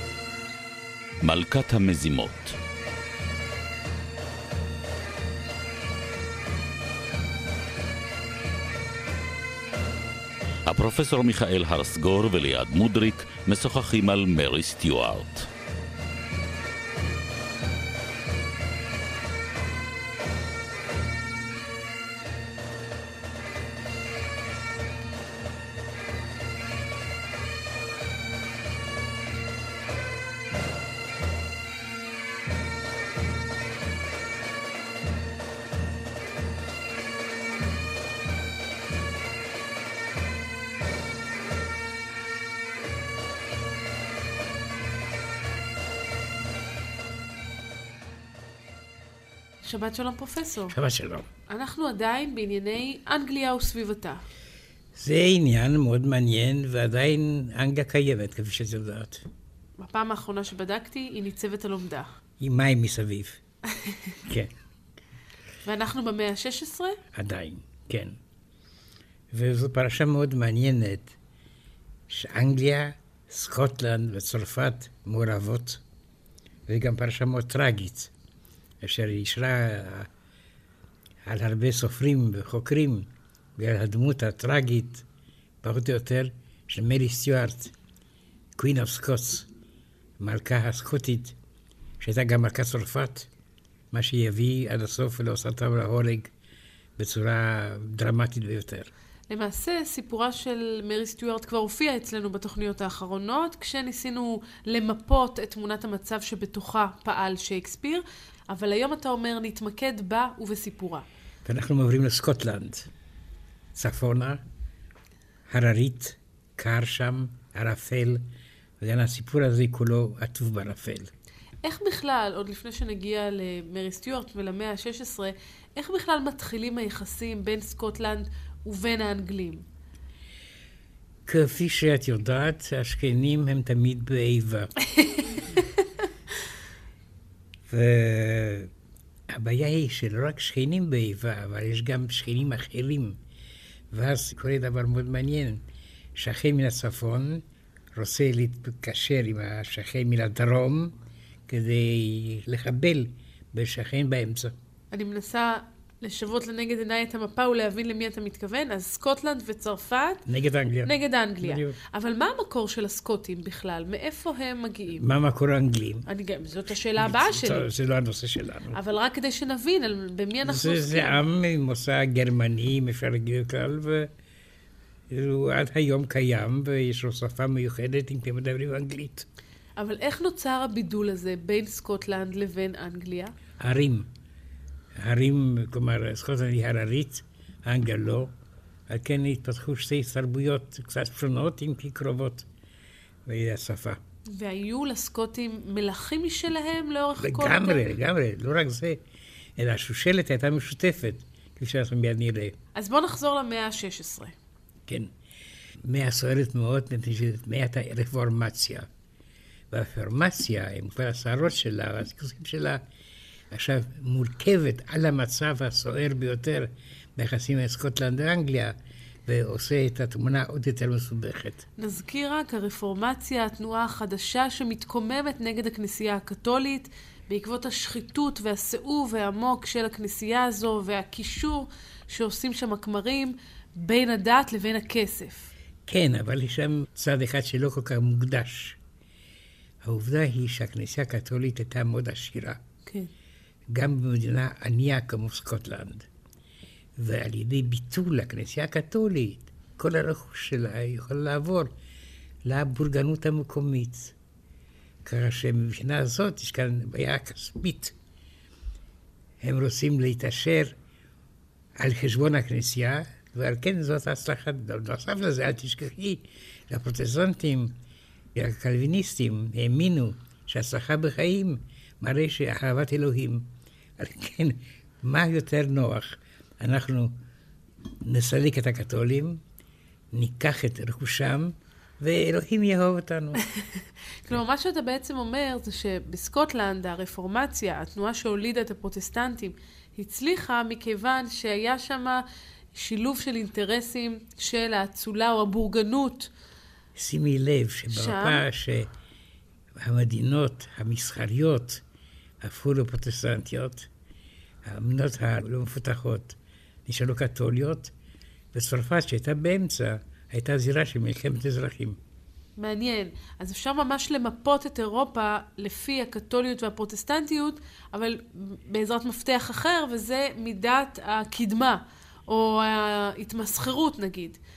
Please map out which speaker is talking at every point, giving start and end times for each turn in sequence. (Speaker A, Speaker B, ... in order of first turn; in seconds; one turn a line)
Speaker A: 1.2-2.6
Speaker A: 10.7-15.5
Speaker B: 49.6-50.8
Speaker C: 50.7-51.3
Speaker B: 51.5-54.2
Speaker C: 55.0-59.2
Speaker B: 59.8-62.2
Speaker C: 62.4-63.4
Speaker B: 63.8-64.2
Speaker C: 64.2-64.5
Speaker B: 65.6-67.0
Speaker C: 67.1-68.2
Speaker C: 69.3-71.2
Speaker C: 72.1-75.8
Speaker C: 76.7-78.1
Speaker C: 78.8-80.1
Speaker C: 81.2-85.0
Speaker C: 85.6-87.7
Speaker C: 88.6-89.5
Speaker C: 90.2-91.4
Speaker C: 92.0-93.3
Speaker C: 93.9-96.3
Speaker C: 97.0-98.9
Speaker B: 99.3-111.1
Speaker C: 111.5-112.9
Speaker C: 113.8-114.4
Speaker C: 115.5-118.2
Speaker C: 118.8-121.1
Speaker B: 121.6-129.7
Speaker C: 131.3-134.7
Speaker B: 135.0-135.7
Speaker C: 137.7-138.7
Speaker C: 139.3-143.2
Speaker C: 143.9-145.6
Speaker C: 146.2-147.4
Speaker C: 147.9-151.0
Speaker C: 151.5-154.6
Speaker B: 154.9-160.3
Speaker C: 160.3-161.8
Speaker B: 160.8-165.1
Speaker C: 165.0-166.1
Speaker B: 166.1-167.7
Speaker C: 167.0-168.8
Speaker B: 168.7-171.2
Speaker C: 170.4-174.1
Speaker C: 175.1-179.3
Speaker B: 179.8-183.3
Speaker C: 183.6-184.1
Speaker C: 185.0-188.3
Speaker C: 188.9-192.5
Speaker C: 193.3-194.0
Speaker B: 194.3-197.9
Speaker C: 197.2-199.0
Speaker C: 199.6-202.6
Speaker B: 202.7-204.4
Speaker C: 204.9-205.1
Speaker C: 205.8-208.9
Speaker C: 209.7-212.8
Speaker C: 213.5-221.7
Speaker B: 221.8-235.5
Speaker C: 235.9-238.8
Speaker C: 239.8-242.6
Speaker C: 243.7-246.1
Speaker C: 247.0-251.7
Speaker C: 252.4-254.2
Speaker C: 255.1-258.0
Speaker C: 259.4-260.8
Speaker C: 261.8-267.8
Speaker C: 268.4-277.1
Speaker C: 278.0-279.4
Speaker C: 280.1-283.4
Speaker B: 283.4-296.3
Speaker C: 296.9-298.9
Speaker B: 297.9-298.4
Speaker C: 299.8-301.8
Speaker C: 302.4-303.9
Speaker C: 304.6-307.9
Speaker C: 308.5-312.0
Speaker B: 312.6-324.4